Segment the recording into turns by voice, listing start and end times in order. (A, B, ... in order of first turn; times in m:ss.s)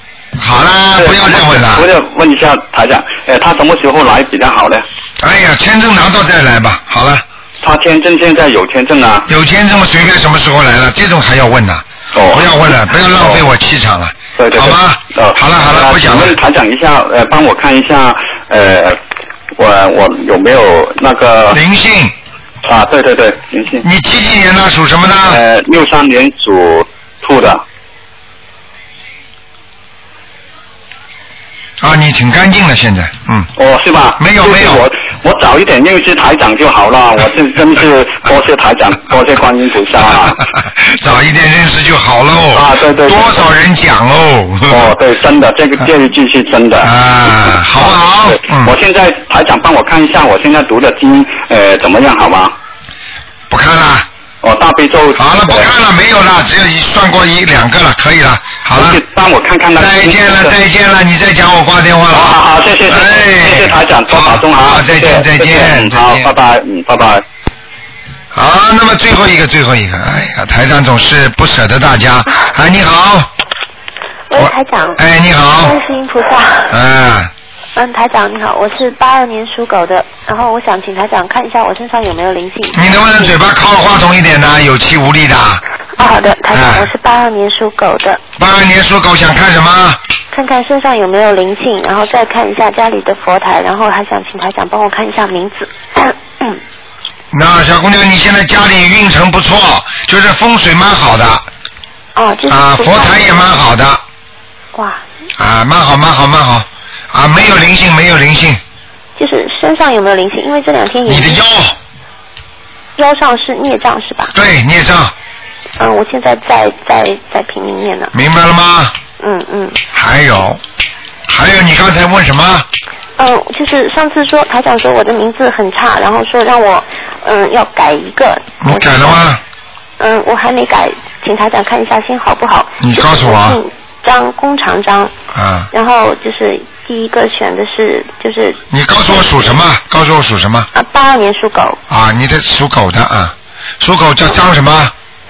0:00.4-0:01.9 A
0:01.0-0:04.8 B
0:05.2-0:07.2 A
0:07.6-0:09.3 B
0:09.3-0:16.4 A
0:12.1-0:12.6 B
0:13.1-0:13.4 B
0:14.4-0:19.0 B
0:19.6-0:21.6 B
0:21.5-0:22.1 A
0:22.6-0:23.8 B
0:23.8-0:25.4 A
0:25.3-0:27.6 B
0:31.8-0:33.5 A
0:33.6-0:40.4 B
0:34.2-0:34.9 A
0:40.6-0:44.9 A
0:42.5-0:43.5 B
0:44.7-0:46.9 B
0:46.8-0:48.7 A
0:47.4-0:52.5 B
0:53.5-0:54.1 A
0:54.4-0:55.7 B
0:55.2-0:59.0 A
0:58.8-1:00.5 B
0:59.8-1:06.3 A
1:02.1-1:07.2 B
1:08.3-1:13.3 A
1:14.3-1:15.0 C
1:14.3-1:15.8 A
1:15.6-1:16.8 C
1:16.7-1:17.3 A
1:17.8-1:23.3 C
1:22.7-1:25.6 A
1:26.0-1:28.2 C
1:26.5-1:26.9 A
1:28.4-1:30.0 A
1:30.3-1:36.5 C
1:37.3-1:41.4 A
1:42.2-1:43.5 C
1:42.5-1:44.0 A
1:44.7-1:45.0 C
1:45.4-1:48.6 A
1:49.2-1:51.4 C
1:51.1-1:51.8 A
1:53.0-1:54.4 C
1:54.4-1:55.1 A
1:55.8-1:58.1 C
1:58.1-1:58.9 A
1:59.2-1:59.8 C
1:59.9-2:00.6 A
2:01.3-2:02.7 A
2:03.2-2:09.2 C
2:08.6-2:09.4 A
2:10.0-2:15.1 C
2:12.8-2:13.6 A
2:15.3-2:15.7 A
2:15.7-2:18.6 C
2:18.7-2:20.7 A
2:20.7-2:21.8 C
2:21.9-2:24.9 A